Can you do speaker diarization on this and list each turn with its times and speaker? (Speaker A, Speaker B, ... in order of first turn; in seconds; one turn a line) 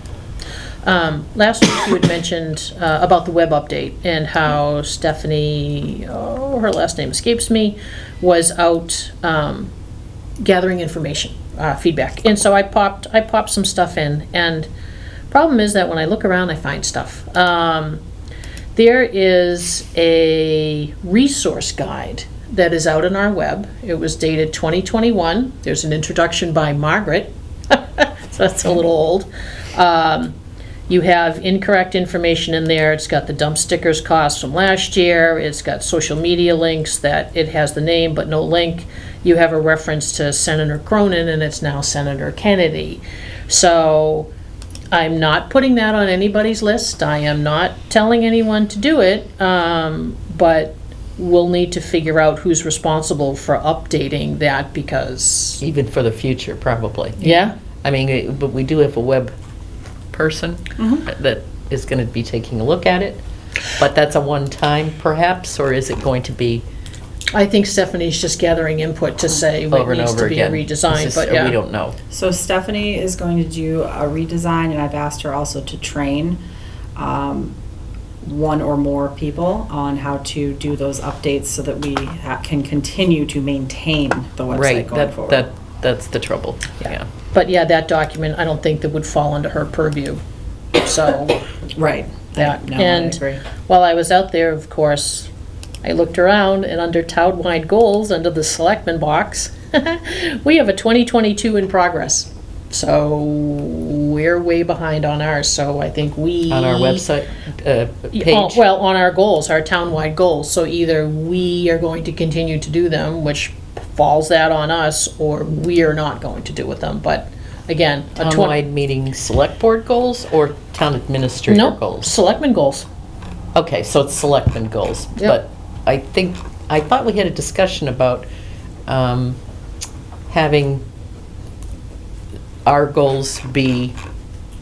Speaker A: 0.8-9.7
Speaker A: 10.4-14.7
Speaker A: 15.3-18.0
Speaker A: 18.7-30.4
Speaker A: 30.9-44.3
Speaker A: 44.9-55.6
Speaker B: 55.6-57.2
Speaker A: 57.2-57.5
Speaker B: 57.8-59.3
Speaker B: 60.1-63.2
Speaker C: 60.8-61.0
Speaker B: 63.8-66.6
Speaker A: 67.3-71.6
Speaker B: 69.7-72.0
Speaker C: 72.1-76.4
Speaker C: 76.9-77.5
Speaker C: 78.2-85.5
Speaker B: 84.5-87.0
Speaker A: 87.3-90.2
Speaker A: 90.8-91.4
Speaker C: 91.7-93.4
Speaker A: 92.4-95.3
Speaker A: 95.8-107.0
Speaker B: 106.5-108.6
Speaker A: 108.1-118.5
Speaker B: 118.2-122.1
Speaker A: 121.5-122.9
Speaker B: 123.5-128.2
Speaker B: 128.9-129.4
Speaker B: 130.3-130.8
Speaker B: 132.6-133.9